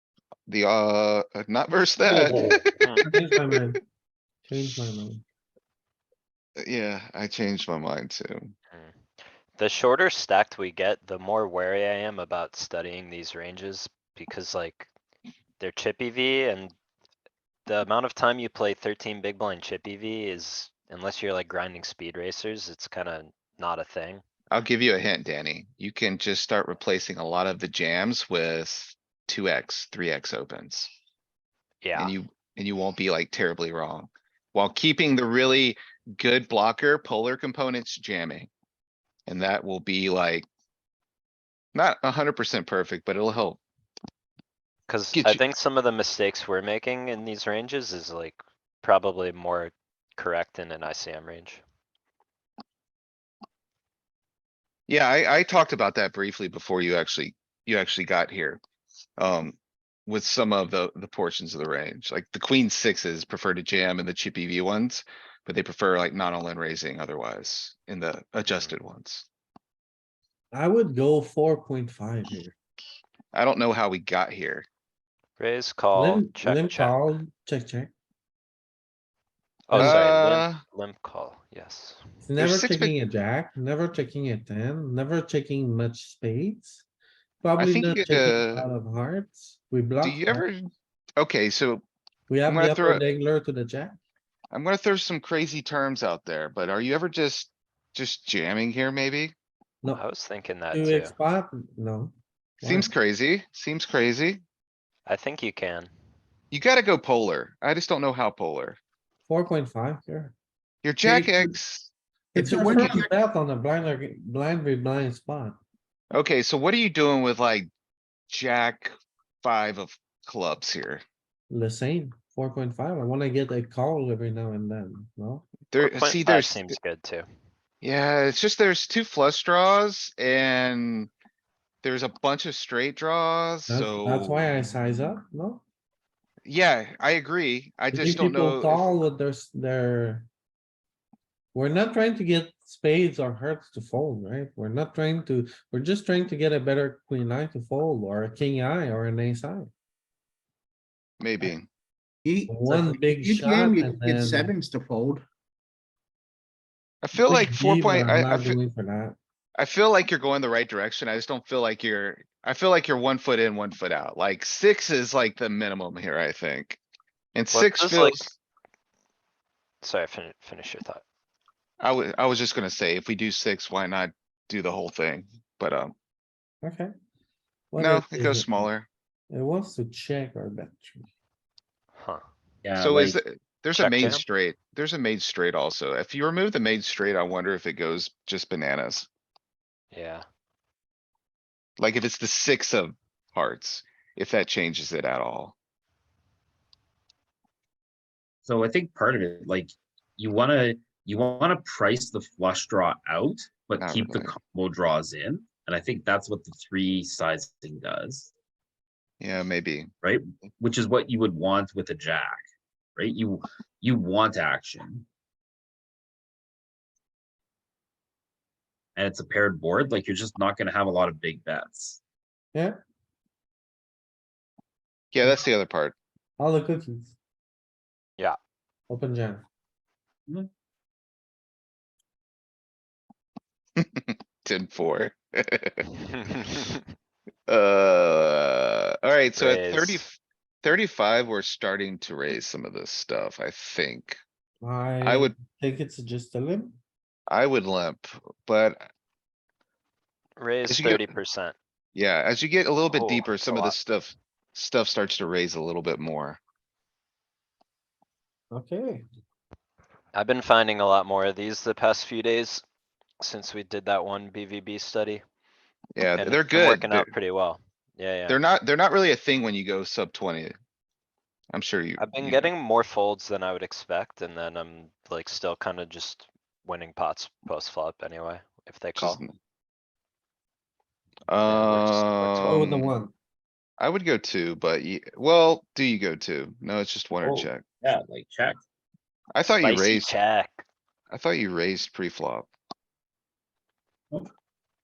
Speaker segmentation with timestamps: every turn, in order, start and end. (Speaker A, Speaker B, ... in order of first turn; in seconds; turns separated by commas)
Speaker A: 0.5-2.9, Speaker B: 3.0-3.8, Speaker B: 4.5-5.2, Speaker A: 6.6-8.5, Speaker C: 9.6-14.9, Speaker C: 15.6-16.8, Speaker C: 17.7-24.2, Speaker A: 24.5-30.9, Speaker C: 31.8-32.1, Speaker A: 32.0-38.5, Speaker A: 39.3-40.5, Speaker A: 41.7-43.6, Speaker C: 44.9-51.6, Speaker A: 45.1-45.4, Speaker A: 54.9-58.6, Speaker A: 59.2-69.3, Speaker C: 68.5-68.7, Speaker B: 70.5-72.5, Speaker A: 73.3-74.7, Speaker C: 75.4-77.0, Speaker B: 75.9-77.9, Speaker C: 79.7-82.0, Speaker B: 79.7-80.0, Speaker A: 79.8-80.6, Speaker B: 82.2-86.9, Speaker A: 82.4-83.0, Speaker B: 87.4-90.5, Speaker A: 87.6-88.7, Speaker A: 90.0-91.8, Speaker B: 92.3-94.0, Speaker A: 92.5-93.0, Speaker A: 94.5-99.3, Speaker C: 99.9-101.1, Speaker B: 100.7-102.9, Speaker A: 102.6-104.4, Speaker C: 105.1-105.9, Speaker A: 106.5-108.8, Speaker B: 109.3-110.3, Speaker A: 110.8-111.9, Speaker B: 111.0-111.5, Speaker B: 112.3-115.6, Speaker D: 112.3-113.1, Speaker A: 116.1-117.7, Speaker A: 118.3-121.0, Speaker B: 121.5-125.5, Speaker A: 125.7-126.8, Speaker C: 125.8-127.3, Speaker A: 127.8-131.1, Speaker A: 131.8-134.7, Speaker B: 133.7-135.6, Speaker A: 136.4-139.0, Speaker B: 137.9-140.3, Speaker B: 141.5-149.7, Speaker A: 151.2-151.7, Speaker D: 152.2-155.2, Speaker B: 152.5-154.5, Speaker A: 157.0-158.6, Speaker B: 157.2-159.2, Speaker A: 159.6-166.8, Speaker A: 167.3-168.3, Speaker C: 167.5-168.4, Speaker C: 169.8-171.0, Speaker A: 171.8-175.9, Speaker B: 176.6-176.9, Speaker B: 177.7-178.7, Speaker A: 177.8-178.9, Speaker B: 179.3-181.1, Speaker C: 182.0-182.2, Speaker E: 182.6-183.2, Speaker A: 182.8-189.1, Speaker C: 183.8-184.2, Speaker C: 189.9-190.3, Speaker A: 191.8-195.6, Speaker E: 198.4-208.3, Speaker A: 203.8-204.3, Speaker A: 209.2-209.9, Speaker E: 210.0-212.4, Speaker E: 213.0-215.1, Speaker E: 219.0-222.0, Speaker A: 225.1-226.0, Speaker B: 226.4-227.2, Speaker B: 228.9-229.5, Speaker A: 233.8-235.9, Speaker C: 236.3-236.8, Speaker A: 237.5-244.2, Speaker C: 239.3-240.1, Speaker B: 244.6-246.8, Speaker A: 245.0-245.3, Speaker A: 247.3-248.9, Speaker C: 250.4-251.6, Speaker A: 250.7-251.2, Speaker A: 251.9-256.4, Speaker C: 252.9-253.8, Speaker B: 258.5-259.1, Speaker C: 260.1-262.6, Speaker C: 263.2-265.2, Speaker A: 265.9-267.1, Speaker C: 266.2-268.4, Speaker A: 268.3-270.6, Speaker A: 271.5-272.5, Speaker C: 272.0-279.2, Speaker A: 279.0-279.4, Speaker A: 281.3-282.9, Speaker C: 281.4-282.8, Speaker B: 282.5-283.1, Speaker A: 283.8-287.6, Speaker E: 287.2-288.6, Speaker A: 289.3-290.1, Speaker C: 289.6-290.6, Speaker A: 291.1-292.5